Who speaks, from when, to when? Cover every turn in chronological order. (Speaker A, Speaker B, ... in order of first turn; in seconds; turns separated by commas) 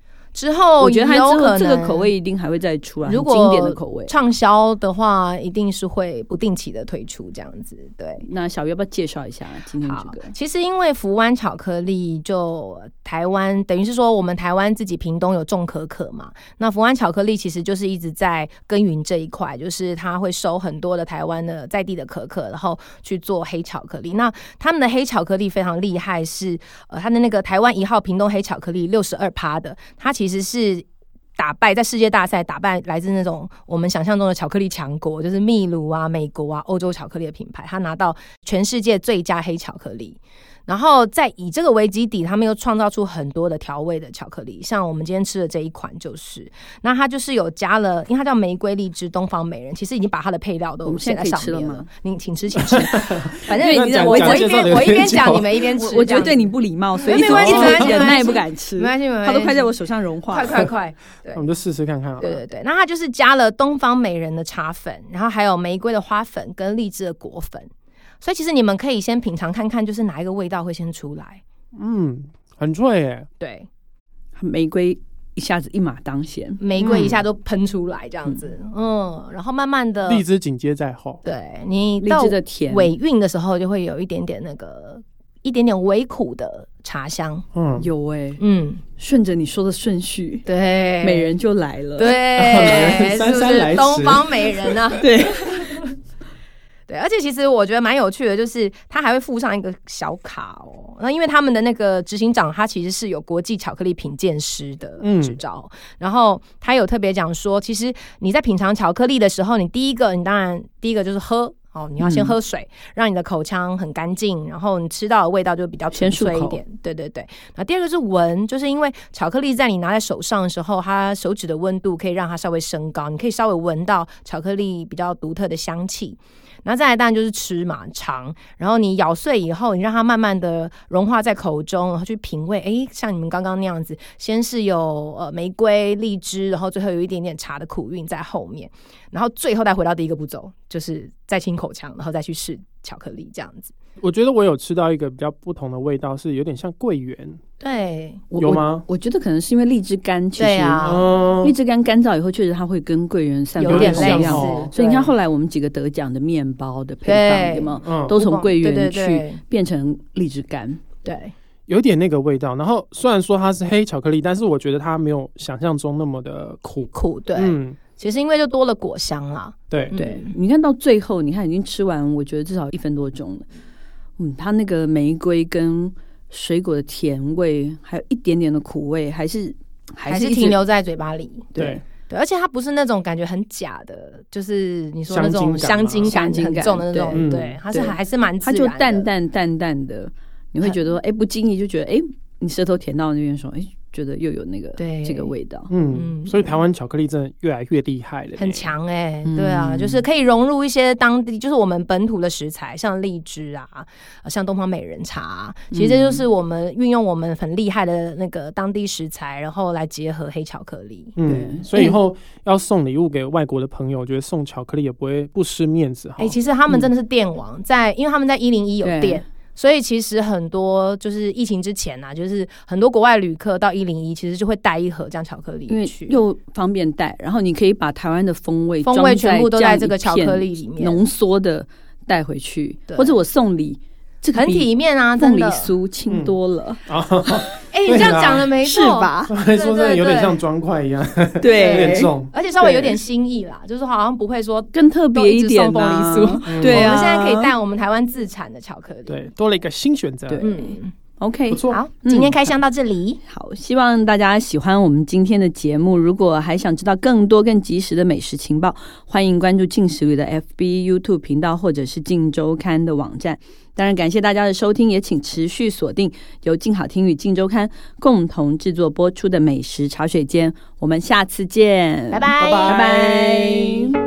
Speaker A: 0.3-2.1, Speaker B: 0.8-4.1, Speaker A: 3.0-8.2, Speaker B: 8.2-10.3, Speaker A: 9.8-30.9, Speaker A: 31.4-56.5, Speaker B: 50.8-51.9, Speaker C: 52.7-55.5, Speaker B: 53.5-60.7, Speaker A: 57.0-59.7, Speaker C: 57.1-58.2, Speaker A: 60.3-61.4, Speaker C: 61.3-62.4, Speaker A: 62.2-67.7, Speaker A: 68.2-71.4, Speaker C: 71.7-73.3, Speaker A: 73.4-73.7, Speaker B: 74.3-76.6, Speaker A: 76.6-80.2, Speaker C: 76.8-77.2, Speaker C: 80.1-81.2, Speaker A: 81.2-87.4, Speaker B: 82.0-82.9, Speaker C: 87.5-87.9, Speaker B: 87.8-88.4, Speaker A: 88.4-88.8, Speaker B: 89.0-90.5, Speaker A: 90.5-91.3, Speaker B: 91.0-92.9, Speaker A: 92.0-95.9, Speaker C: 92.3-94.8, Speaker B: 95.0-95.7, Speaker A: 96.9-143.7, Speaker C: 105.0-105.4, Speaker B: 112.0-112.3, Speaker B: 115.9-116.6, Speaker C: 144.0-147.4, Speaker A: 147.6-148.2, Speaker B: 148.3-160.8, Speaker C: 148.4-148.8, Speaker A: 150.4-151.1, Speaker C: 150.8-151.5, Speaker A: 153.6-155.1, Speaker C: 153.7-154.7, Speaker A: 157.0-159.4, Speaker C: 157.8-158.1, Speaker A: 161.0-161.3, Speaker C: 161.7-167.8, Speaker A: 166.9-170.3, Speaker C: 169.7-169.9, Speaker B: 169.9-173.4, Speaker B: 174.2-180.6, Speaker A: 180.1-181.5, Speaker B: 181.5-181.8, Speaker C: 181.6-181.8, Speaker A: 182.1-189.1, Speaker C: 185.1-186.1, Speaker B: 186.1-195.7, Speaker C: 187.1-187.6, Speaker A: 194.8-195.3, Speaker C: 195.7-198.7, Speaker A: 195.9-196.6, Speaker A: 198.4-211.9, Speaker B: 199.2-200.0, Speaker B: 205.7-206.2, Speaker C: 211.2-216.4, Speaker B: 211.2-211.9, Speaker A: 216.2-226.2, Speaker B: 218.8-219.2, Speaker B: 225.7-237.6, Speaker A: 228.8-231.0, Speaker A: 232.9-233.2, Speaker A: 234.3-235.7, Speaker C: 236.1-236.3, Speaker C: 236.9-238.5, Speaker A: 237.7-240.4, Speaker B: 238.6-239.1, Speaker C: 239.3-242.9, Speaker B: 241.4-242.1, Speaker A: 241.4-249.3, Speaker B: 244.7-247.5, Speaker C: 246.5-247.1, Speaker C: 249.1-250.4, Speaker B: 250.3-252.6, Speaker A: 250.4-250.9, Speaker C: 251.5-251.8, Speaker A: 251.7-253.2, Speaker B: 253.3-273.9, Speaker A: 272.1-273.9